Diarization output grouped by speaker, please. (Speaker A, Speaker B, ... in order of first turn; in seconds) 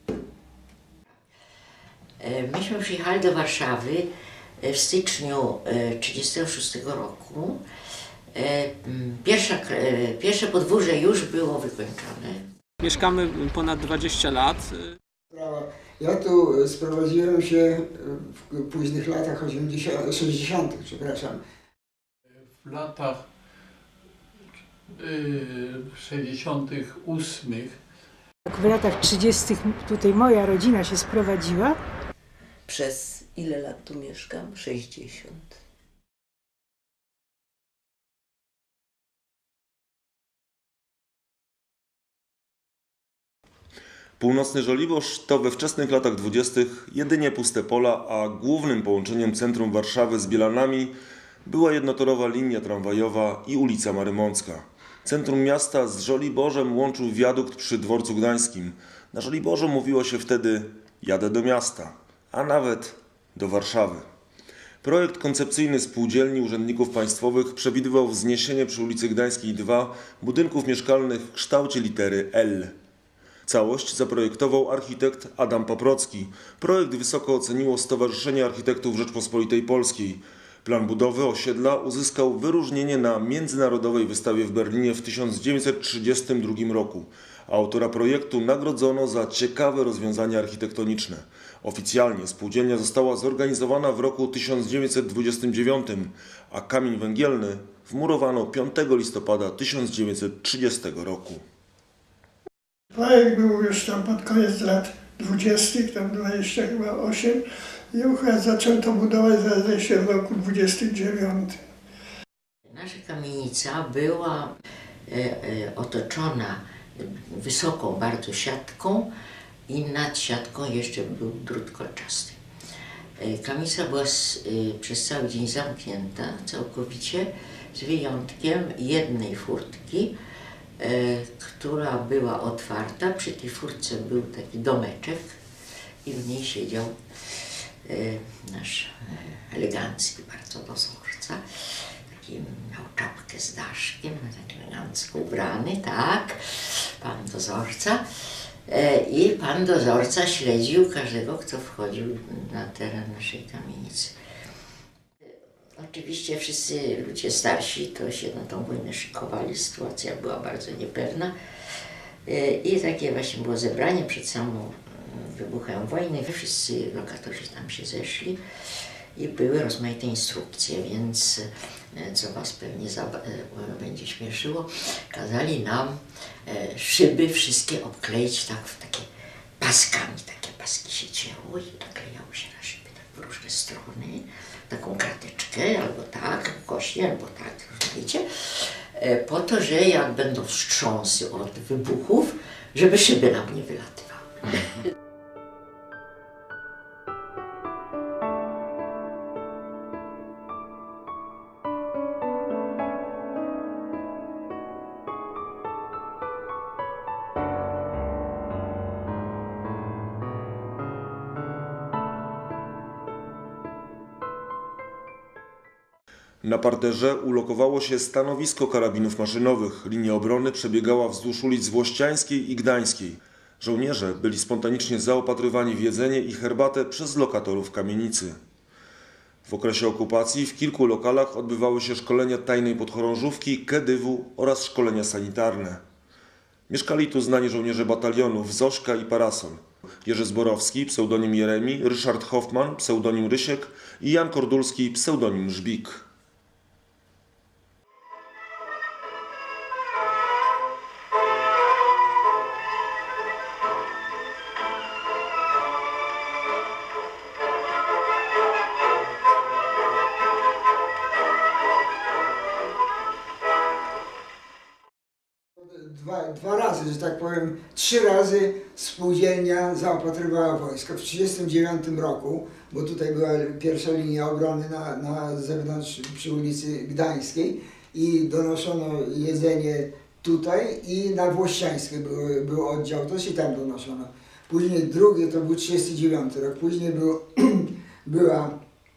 Speaker A: 2.2-4.1, 4.6-7.6, 8.3-12.4, 112.7-114.5, 115.1-119.1, 119.7-122.4, 123.2-130.1, 130.8-135.3, 136.0-136.9, 137.9-141.4, 142.1-146.4, 147.0-148.0, 148.7-154.1, 155.8-161.3, 162.2-168.4, 169.2-171.4, 172.0-179.1, 179.6-188.2, 189.0-194.5
Speaker B: 12.8-14.9
Speaker C: 15.3-21.4, 265.6-288.5
Speaker D: 22.5-23.2, 24.9-27.8
Speaker E: 28.5-31.8
Speaker F: 32.7-35.5
Speaker G: 44.2-50.9, 51.4-64.0, 64.8-72.7, 73.5-101.4, 216.4-228.4, 229.4-235.8, 236.7-246.0
Speaker H: 102.9-111.6